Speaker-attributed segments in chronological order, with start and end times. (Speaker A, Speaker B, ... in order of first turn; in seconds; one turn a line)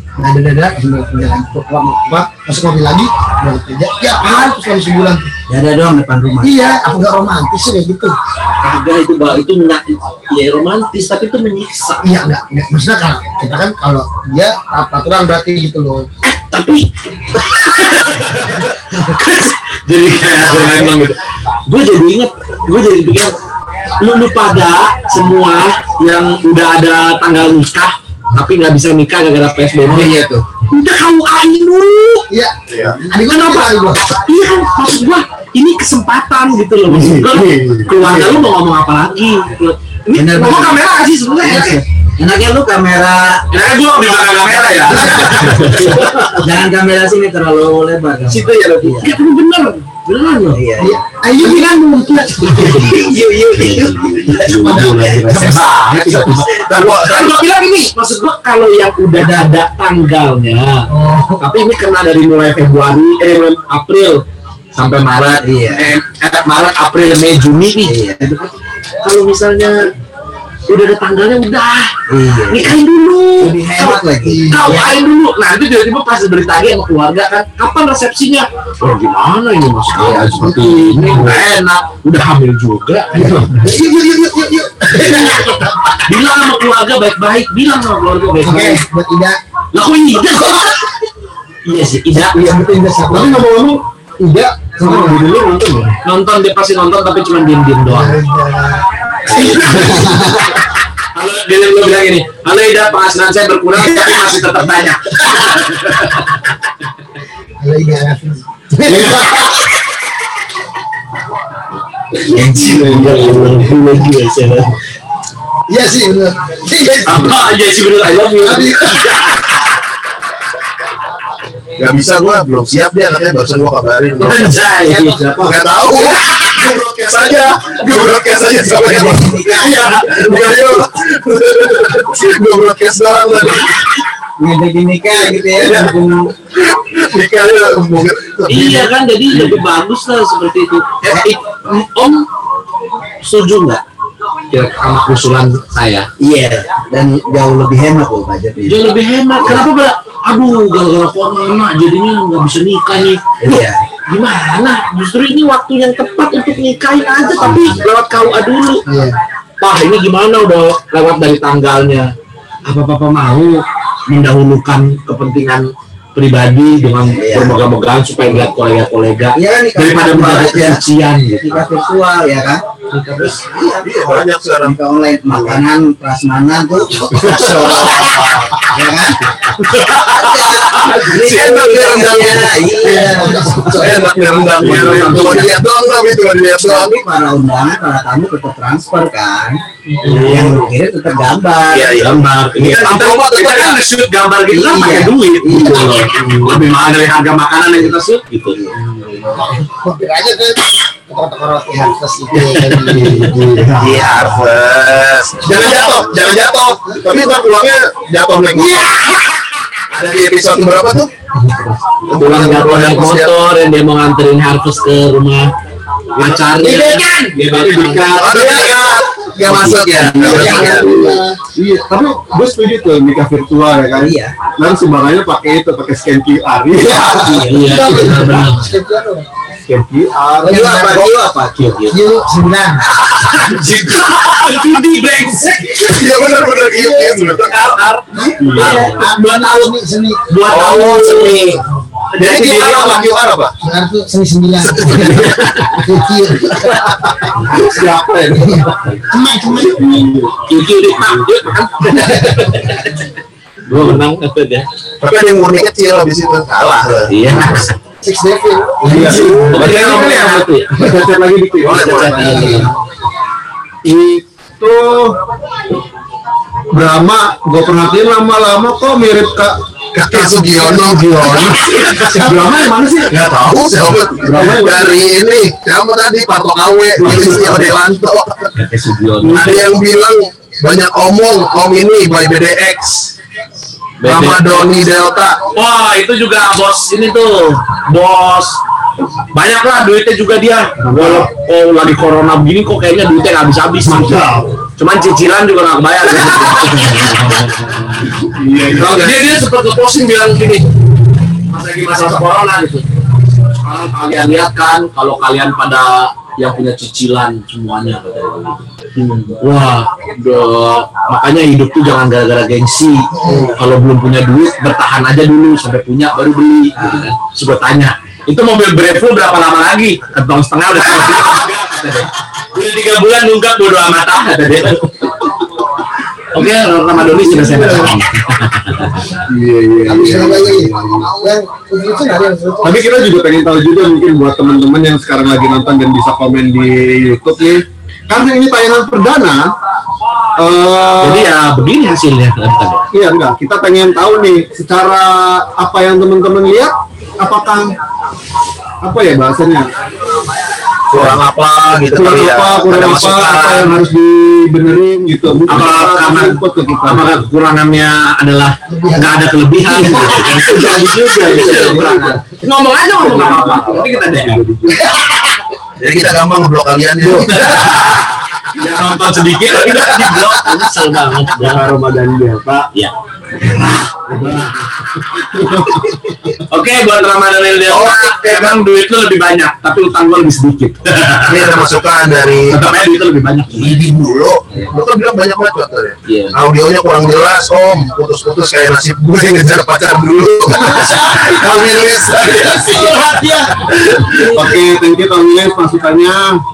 Speaker A: 0.2-5.3
Speaker B: 5.5-6.7
Speaker A: 6.4-8.1
Speaker C: 8.6-12.1
Speaker A: 12.0-16.1
Speaker C: 16.2-23.4
Speaker B: 20.4-20.9
Speaker C: 24.0-32.3
Speaker B: 29.9-30.4
Speaker A: 32.3-34.0
Speaker D: 32.7-33.0
Speaker C: 33.1-41.8
Speaker E: 36.9-38.4
Speaker B: 40.1-40.8
Speaker B: 41.4-43.6
Speaker C: 43.5-46.4
Speaker B: 44.4-49.2
Speaker C: 48.3-50.7
Speaker B: 50.5-51.0
Speaker A: 50.8-52.9
Speaker C: 51.4-51.8
Speaker C: 52.3-60.9
Speaker B: 52.7-54.8
Speaker A: 54.4-56.3
Speaker D: 55.9-57.4
Speaker A: 60.9-61.4
Speaker C: 61.4-69.8
Speaker B: 65.4-66.0
Speaker B: 67.8-68.3
Speaker C: 70.7-71.9
Speaker B: 72.1-72.8
Speaker C: 72.5-83.7
Speaker B: 73.4-75.0
Speaker A: 74.3-74.6
Speaker B: 79.9-80.6
Speaker A: 80.4-81.4
Speaker A: 83.3-85.9
Speaker C: 84.9-88.8
Speaker A: 88.4-89.4
Speaker C: 89.7-90.8
Speaker C: 91.6-92.4
Speaker A: 92.3-93.5
Speaker E: 93.1-95.9
Speaker A: 94.7-95.2
Speaker C: 96.0-98.2
Speaker A: 97.9-100.5
Speaker C: 99.2-100.4
Speaker C: 101.1-106.2
Speaker A: 107.6-109.6
Speaker C: 112.3-114.8
Speaker E: 112.4-113.7
Speaker A: 115.7-117.5
Speaker C: 117.0-119.6
Speaker A: 118.4-119.0
Speaker D: 121.8-124.5
Speaker C: 124.2-125.5
Speaker A: 124.8-125.6
Speaker D: 125.3-133.9
Speaker B: 128.7-130.2
Speaker C: 129.6-130.4
Speaker B: 134.4-136.3
Speaker D: 135.5-138.9
Speaker C: 138.5-142.3
Speaker C: 143.2-143.8
Speaker C: 144.5-146.1
Speaker B: 146.2-148.8
Speaker C: 148.7-153.6
Speaker B: 149.4-149.7
Speaker B: 153.4-153.8
Speaker C: 154.1-158.8
Speaker A: 158.9-159.2
Speaker C: 159.6-162.1
Speaker C: 162.7-171.6
Speaker B: 167.1-167.6
Speaker B: 169.3-170.8
Speaker B: 171.4-172.6
Speaker C: 172.9-173.4
Speaker B: 173.3-174.1
Speaker D: 173.7-175.6
Speaker B: 174.6-179.2
Speaker D: 177.3-178.5
Speaker C: 179.5-181.1
Speaker B: 179.8-184.0
Speaker D: 181.1-182.7
Speaker A: 182.7-184.1
Speaker D: 183.7-186.9
Speaker C: 184.6-185.5
Speaker E: 184.7-185.1
Speaker B: 186.6-192.0
Speaker C: 189.9-190.6
Speaker D: 190.1-190.6
Speaker D: 191.7-193.8
Speaker C: 191.9-198.6
Speaker B: 194.5-196.1
Speaker B: 198.5-199.4
Speaker A: 199.3-203.6
Speaker C: 202.6-203.1
Speaker E: 202.8-204.4
Speaker D: 203.8-209.0
Speaker A: 205.4-206.3
Speaker A: 208.6-209.3
Speaker D: 209.9-211.1
Speaker D: 212.1-213.3
Speaker C: 212.1-215.5
Speaker E: 216.2-216.5
Speaker C: 216.2-220.6
Speaker A: 216.6-217.1
Speaker E: 217.3-218.9
Speaker D: 218.1-220.9
Speaker E: 219.9-227.4
Speaker A: 220.2-221.4
Speaker B: 223.9-224.4
Speaker B: 226.9-228.1
Speaker A: 226.9-229.3
Speaker C: 227.4-228.7
Speaker E: 229.7-230.9
Speaker A: 230.4-231.1
Speaker B: 230.4-231.8
Speaker C: 231.5-232.0
Speaker A: 231.9-232.8
Speaker C: 233.0-236.2
Speaker D: 235.8-237.7
Speaker A: 236.7-237.2
Speaker C: 237.2-239.7
Speaker A: 238.1-240.2
Speaker E: 238.4-238.9
Speaker B: 238.5-239.0
Speaker C: 240.3-243.3
Speaker D: 240.5-241.3
Speaker A: 241.0-241.8
Speaker D: 242.2-243.5
Speaker A: 243.6-247.7
Speaker D: 244.6-245.6
Speaker C: 245.3-245.6
Speaker E: 246.9-249.0
Speaker A: 248.5-250.1
Speaker E: 249.6-250.3
Speaker C: 250.5-253.1
Speaker A: 251.9-252.5
Speaker C: 253.7-254.7
Speaker D: 255.0-257.6
Speaker C: 257.1-257.8
Speaker A: 258.0-259.8
Speaker E: 258.8-262.6
Speaker C: 258.8-260.7
Speaker D: 261.6-262.3
Speaker C: 261.7-262.7
Speaker A: 262.1-262.7
Speaker E: 263.8-265.2
Speaker E: 266.7-271.7
Speaker D: 269.9-271.7
Speaker C: 271.4-273.1
Speaker D: 273.1-278.5
Speaker E: 274.2-274.9
Speaker C: 274.2-274.7
Speaker E: 277.0-277.6
Speaker C: 278.5-279.7
Speaker D: 279.2-283.1
Speaker C: 284.0-284.7
Speaker D: 284.0-285.4
Speaker C: 285.5-288.6
Speaker C: 289.3-300.7
Speaker E: 290.8-291.3
Speaker E: 293.9-294.6
Speaker E: 298.2-299.1
Speaker D: 298.6-299.1
Speaker C: 301.5-302.9
Speaker C: 303.6-308.6
Speaker C: 309.3-325.2
Speaker A: 313.2-313.5
Speaker B: 316.8-317.1
Speaker C: 326.3-329.2
Speaker E: 327.4-327.9
Speaker E: 329.3-331.1
Speaker A: 329.9-332.8
Speaker E: 332.6-339.5
Speaker E: 340.4-341.3
Speaker C: 341.0-342.9
Speaker E: 342.9-347.8
Speaker E: 348.8-349.7
Speaker D: 350.9-353.8
Speaker E: 351.9-357.1
Speaker C: 355.5-364.4
Speaker A: 358.7-360.6
Speaker E: 360.1-362.4
Speaker E: 362.9-364.9
Speaker A: 364.8-365.2
Speaker D: 365.8-367.8
Speaker E: 367.0-367.3
Speaker C: 367.1-371.6
Speaker D: 369.7-370.1
Speaker E: 371.3-372.7
Speaker E: 374.1-374.5
Speaker C: 374.2-374.5
Speaker E: 375.3-376.3
Speaker C: 376.4-381.5
Speaker D: 377.7-378.6
Speaker D: 381.2-382.6
Speaker C: 382.5-383.8
Speaker D: 383.5-393.0
Speaker C: 386.1-386.3
Speaker A: 390.5-393.5
Speaker C: 392.6-394.1
Speaker E: 394.1-396.4